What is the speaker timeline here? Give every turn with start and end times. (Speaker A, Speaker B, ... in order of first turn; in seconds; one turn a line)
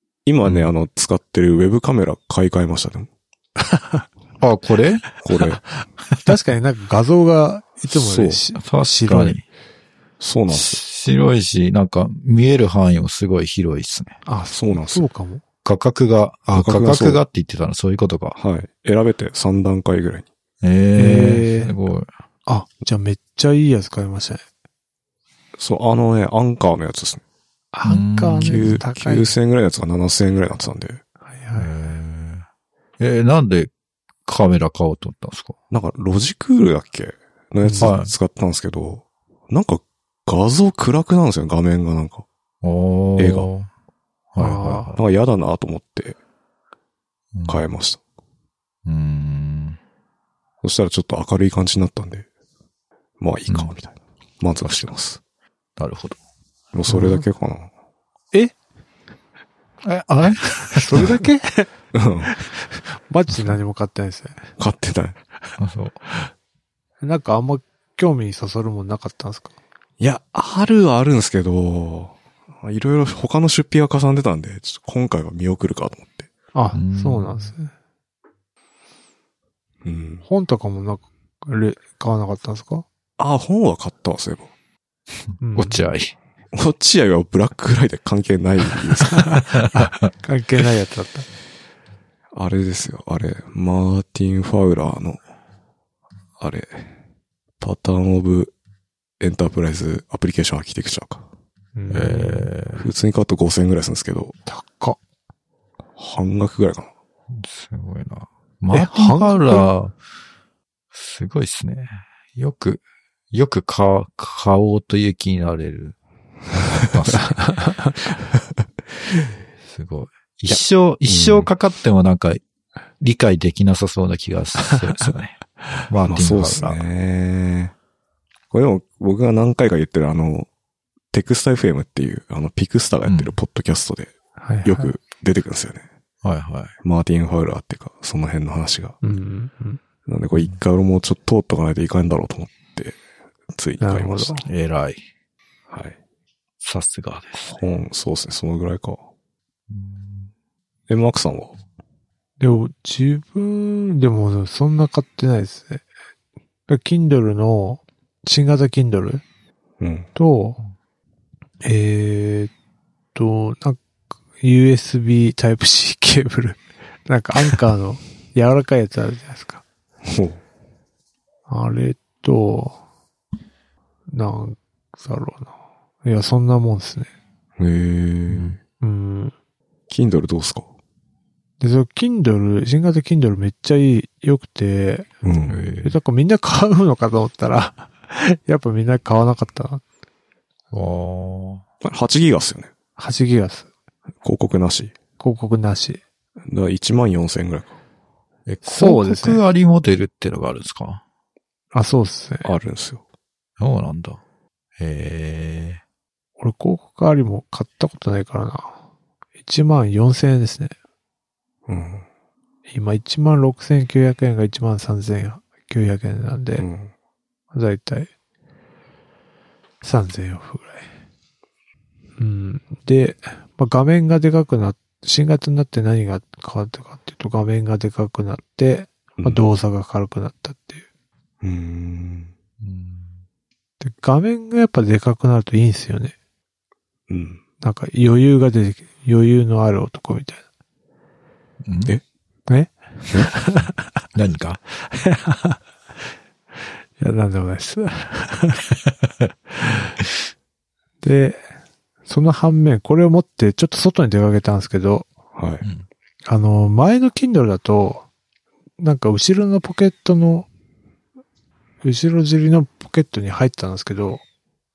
Speaker A: 0.2-3.1
Speaker B: 0.4-0.7
Speaker C: 3.8-4.0
Speaker B: 4.4-5.0
Speaker A: 5.2-5.6
Speaker C: 6.2-9.4
Speaker A: 7.9-8.4
Speaker B: 8.6-9.4
Speaker A: 10.2-10.8
Speaker B: 10.5-14.2
Speaker C: 14.2-15.4
Speaker A: 14.5-15.0
Speaker B: 15.6-18.4
Speaker A: 16.5-17.2
Speaker A: 18.4-20.3
Speaker B: 20.6-22.1
Speaker C: 20.9-21.7
Speaker C: 22.4-24.4
Speaker A: 25.6-27.2
Speaker C: 27.7-29.3
Speaker B: 27.8-28.8
Speaker A: 28.4-31.0
Speaker C: 31.3-31.7
Speaker B: 31.6-32.5
Speaker B: 33.0-33.7
Speaker B: 34.2-35.5
Speaker A: 35.7-42.2
Speaker C: 37.6-37.9
Speaker B: 37.8-38.1
Speaker B: 42.6-43.7
Speaker A: 43.2-43.5
Speaker B: 44.3-45.0
Speaker C: 44.4-44.9
Speaker A: 44.9-46.2
Speaker B: 47.3-47.6
Speaker A: 47.5-48.0
Speaker B: 48.9-49.8
Speaker A: 50.6-52.2
Speaker A: 53.2-55.2
Speaker B: 54.6-54.9
Speaker B: 55.8-56.2
Speaker A: 56.7-57.7
Speaker B: 59.8-61.2
Speaker C: 60.7-61.7
Speaker A: 61.9-62.3
Speaker C: 62.3-64.4
Speaker A: 64.6-65.2
Speaker B: 65.6-66.0
Speaker C: 67.0-69.5
Speaker A: 70.0-76.3
Speaker C: 76.5-77.7
Speaker B: 76.7-77.5
Speaker A: 79.8-80.2
Speaker C: 80.2-82.8
Speaker A: 83.2-84.5
Speaker C: 85.4-85.8
Speaker B: 85.5-86.1
Speaker A: 86.5-89.4
Speaker C: 89.0-91.3
Speaker A: 92.3-95.2
Speaker A: 96.4-96.9
Speaker A: 97.6-98.5
Speaker A: 99.2-101.2
Speaker C: 101.7-102.5
Speaker B: 101.9-102.9
Speaker A: 102.8-104.3
Speaker C: 104.5-105.0
Speaker A: 106.0-106.9
Speaker B: 107.3-109.9
Speaker C: 108.7-109.7
Speaker B: 110.9-116.0
Speaker B: 116.8-117.5
Speaker C: 117.4-117.9
Speaker B: 119.7-122.4
Speaker A: 120.5-121.5
Speaker B: 123.0-125.4
Speaker B: 125.9-126.8
Speaker A: 126.0-127.7
Speaker A: 128.5-130.5
Speaker A: 131.1-135.8
Speaker B: 133.1-133.4
Speaker C: 134.4-134.9
Speaker B: 136.2-136.7
Speaker A: 136.8-139.0
Speaker C: 139.0-139.8
Speaker A: 140.1-143.0
Speaker A: 143.5-144.4
Speaker C: 143.8-144.4
Speaker B: 144.4-145.0
Speaker A: 145.7-146.0
Speaker B: 146.6-147.6
Speaker A: 147.5-149.0
Speaker B: 149.7-150.3
Speaker A: 150.9-151.6
Speaker C: 152.4-155.8
Speaker C: 156.7-159.2
Speaker A: 159.8-160.1
Speaker C: 160.2-160.6
Speaker C: 161.6-162.5
Speaker C: 163.1-163.8
Speaker C: 164.4-169.6
Speaker A: 170.0-170.4
Speaker C: 171.5-172.8
Speaker C: 174.1-177.1
Speaker A: 177.6-178.6
Speaker B: 178.3-178.6
Speaker C: 178.8-179.3
Speaker A: 179.9-180.7
Speaker C: 181.6-185.2
Speaker A: 185.2-185.6
Speaker B: 185.5-186.0
Speaker C: 185.8-189.8
Speaker B: 190.7-191.6
Speaker A: 191.8-192.7
Speaker C: 193.0-193.7
Speaker A: 194.2-194.9
Speaker C: 195.2-196.0
Speaker A: 196.5-197.7
Speaker B: 198.5-201.0
Speaker C: 198.6-199.4
Speaker C: 201.7-202.5
Speaker A: 202.4-203.0
Speaker B: 203.6-204.2
Speaker B: 204.8-205.8
Speaker C: 206.4-208.8
Speaker C: 209.4-210.7
Speaker A: 211.7-212.0
Speaker C: 212.7-216.7
Speaker A: 216.6-216.9
Speaker C: 217.5-218.1
Speaker C: 219.8-220.9
Speaker C: 222.2-230.8
Speaker A: 231.4-232.3
Speaker B: 232.6-233.1
Speaker C: 233.8-236.1
Speaker A: 237.1-237.4
Speaker C: 237.6-240.4
Speaker B: 241.7-241.9
Speaker C: 242.5-243.9
Speaker B: 244.1-244.6
Speaker C: 244.9-245.6
Speaker C: 247.0-248.7
Speaker C: 251.0-251.4
Speaker C: 252.1-255.1
Speaker A: 255.3-255.6
Speaker C: 256.3-258.1
Speaker C: 258.8-260.5
Speaker C: 261.8-264.2